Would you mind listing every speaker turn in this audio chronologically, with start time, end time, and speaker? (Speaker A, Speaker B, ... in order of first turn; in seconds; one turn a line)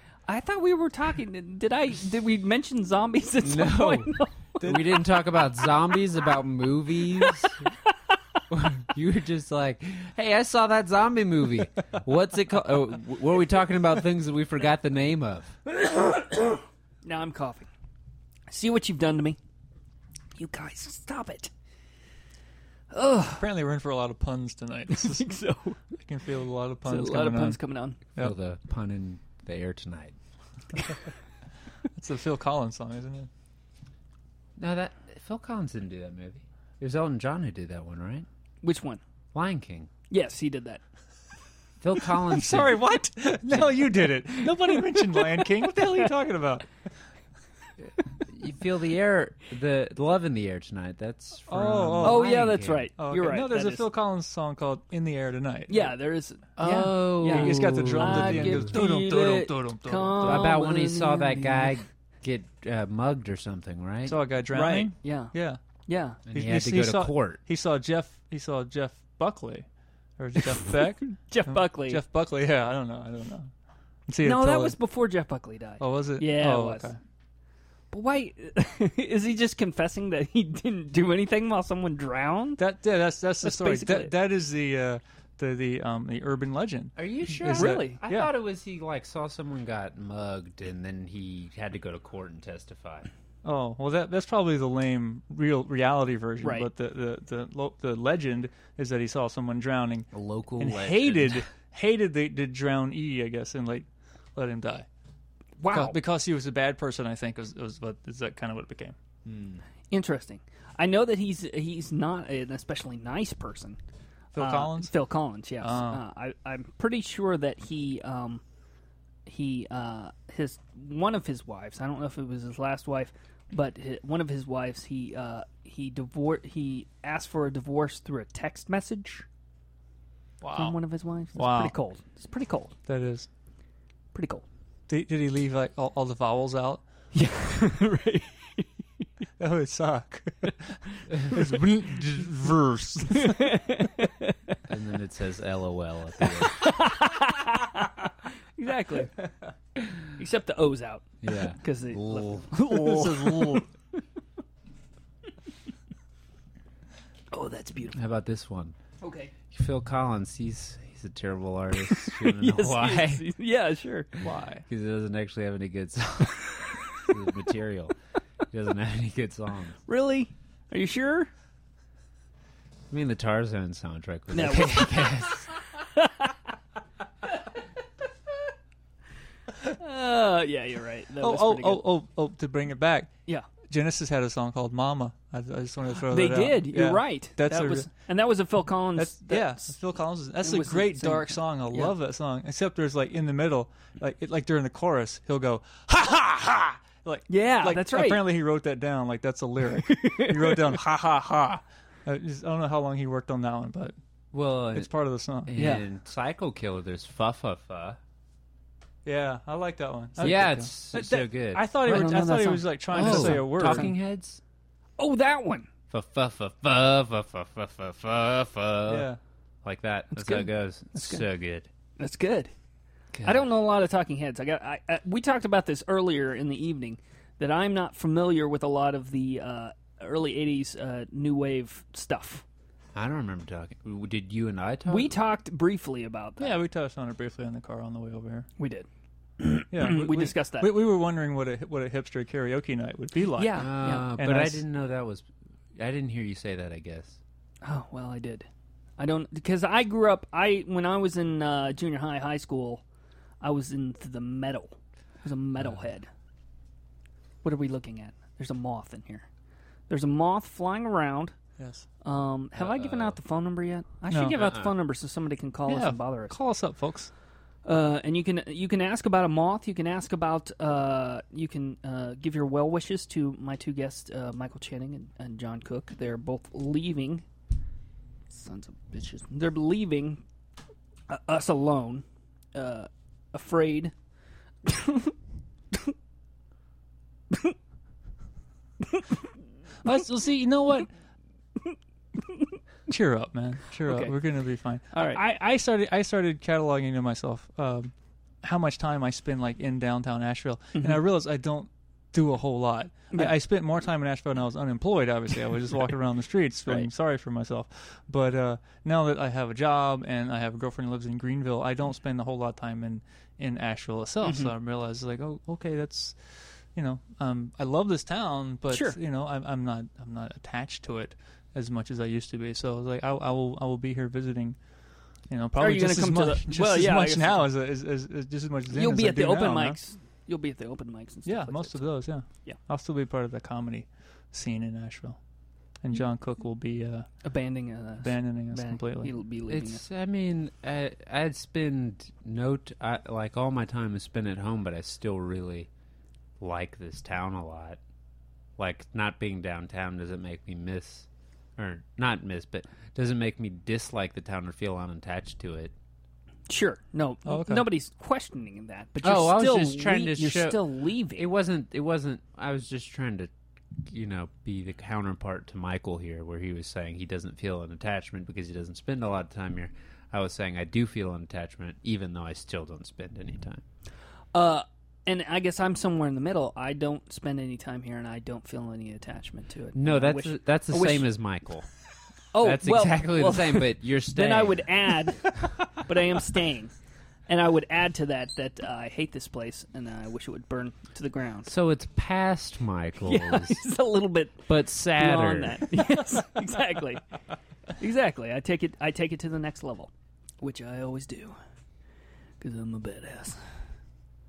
Speaker A: 0.3-5.0
Speaker B: 3.4-7.7
Speaker B: 8.5-15.6
Speaker A: 17.0-17.7
Speaker A: 18.5-19.4
Speaker A: 20.4-21.5
Speaker A: 22.9-23.5
Speaker C: 23.4-25.3
Speaker A: 24.9-25.8
Speaker C: 25.9-27.6
Speaker A: 26.9-28.0
Speaker B: 28.2-30.1
Speaker C: 31.9-33.3
Speaker B: 34.6-38.3
Speaker A: 38.6-39.0
Speaker B: 39.3-39.9
Speaker A: 40.1-40.8
Speaker B: 41.8-42.8
Speaker C: 42.2-46.7
Speaker A: 45.2-45.4
Speaker B: 48.1-52.9
Speaker C: 51.5-52.4
Speaker A: 52.0-53.9
Speaker C: 53.0-55.9
Speaker A: 55.7-61.8
Speaker B: 56.6-58.8
Speaker C: 57.2-60.6
Speaker B: 60.2-64.2
Speaker C: 64.0-65.6
Speaker A: 64.5-65.3
Speaker A: 65.9-66.2
Speaker B: 66.3-67.4
Speaker C: 66.3-69.7
Speaker C: 70.2-73.5
Speaker A: 71.2-72.0
Speaker C: 74.1-74.8
Speaker A: 74.2-76.9
Speaker C: 75.8-77.0
Speaker A: 77.9-82.6
Speaker C: 82.6-88.3
Speaker A: 83.4-84.1
Speaker B: 87.0-93.1
Speaker A: 87.5-88.0
Speaker C: 93.4-104.9
Speaker A: 96.4-96.7
Speaker B: 100.1-101.4
Speaker A: 105.6-106.0
Speaker C: 105.7-109.0
Speaker B: 109.3-109.6
Speaker A: 109.9-113.8
Speaker C: 114.3-115.0
Speaker A: 114.4-118.4
Speaker C: 115.6-116.0
Speaker A: 119.3-129.3
Speaker C: 130.4-130.8
Speaker A: 130.5-132.7
Speaker C: 131.3-131.8
Speaker C: 132.9-133.3
Speaker A: 134.1-134.4
Speaker C: 134.9-136.8
Speaker A: 137.1-138.7
Speaker C: 139.4-143.5
Speaker A: 143.2-144.6
Speaker B: 144.7-146.7
Speaker A: 146.4-149.1
Speaker A: 150.2-154.0
Speaker B: 151.2-152.6
Speaker C: 152.7-153.7
Speaker A: 157.3-158.0
Speaker B: 157.9-158.8
Speaker A: 159.0-159.3
Speaker B: 159.5-163.2
Speaker A: 162.0-164.1
Speaker C: 164.2-164.7
Speaker B: 164.7-167.9
Speaker B: 168.5-169.8
Speaker A: 169.9-171.3
Speaker B: 172.9-175.5
Speaker A: 174.3-175.2
Speaker A: 175.9-176.3
Speaker A: 179.7-181.8
Speaker C: 181.2-183.1
Speaker C: 183.7-187.9
Speaker A: 186.1-189.7
Speaker C: 189.0-204.0
Speaker A: 190.4-191.9
Speaker A: 197.3-198.2
Speaker A: 199.8-200.8
Speaker B: 204.3-204.9
Speaker C: 204.7-205.6
Speaker B: 205.5-208.0
Speaker A: 205.6-205.8
Speaker C: 209.1-213.9
Speaker B: 210.2-212.1
Speaker A: 211.8-213.9
Speaker B: 212.9-214.4
Speaker A: 215.0-215.7
Speaker B: 215.9-219.1
Speaker C: 218.9-219.2
Speaker B: 219.6-221.7
Speaker A: 220.1-221.2
Speaker A: 222.0-222.5
Speaker B: 223.1-223.5
Speaker A: 223.2-232.4
Speaker B: 232.9-235.2
Speaker A: 234.9-236.5
Speaker C: 236.4-238.5
Speaker A: 238.6-238.9
Speaker A: 239.4-240.7
Speaker C: 239.7-244.6
Speaker A: 243.4-244.1
Speaker B: 243.6-247.2
Speaker A: 247.6-248.5
Speaker A: 249.0-252.8
Speaker A: 253.4-256.1
Speaker A: 257.4-259.3
Speaker A: 259.9-261.4
Speaker C: 261.6-261.9
Speaker A: 262.0-266.4
Speaker B: 262.6-263.2
Speaker C: 264.1-264.5
Speaker B: 264.4-264.7
Speaker C: 265.7-267.1
Speaker A: 267.6-277.2
Speaker A: 278.3-280.2
Speaker A: 281.1-283.9
Speaker A: 284.6-285.1
Speaker C: 289.8-290.9
Speaker C: 292.9-297.9
Speaker A: 293.9-294.1
Speaker A: 294.9-295.2
Speaker C: 298.4-324.6
Speaker A: 300.8-301.0
Speaker A: 314.2-314.5
Speaker A: 318.7-319.0
Speaker C: 325.3-329.8
Speaker A: 325.6-327.4
Speaker A: 328.7-331.9
Speaker C: 331.3-335.2
Speaker C: 335.8-337.2
Speaker A: 337.2-339.8
Speaker C: 338.0-339.1
Speaker B: 339.5-345.7
Speaker B: 346.4-347.8
Speaker B: 348.6-355.7
Speaker A: 356.5-361.3
Speaker C: 357.3-357.7
Speaker B: 359.0-363.3
Speaker B: 363.8-373.6
Speaker A: 374.3-381.1
Speaker B: 379.8-381.7
Speaker A: 382.3-386.7
Speaker B: 382.4-384.9
Speaker A: 387.3-391.5
Speaker B: 391.5-393.6
Speaker A: 393.0-397.1
Speaker B: 394.5-395.7
Speaker A: 397.8-401.4
Speaker A: 402.4-403.4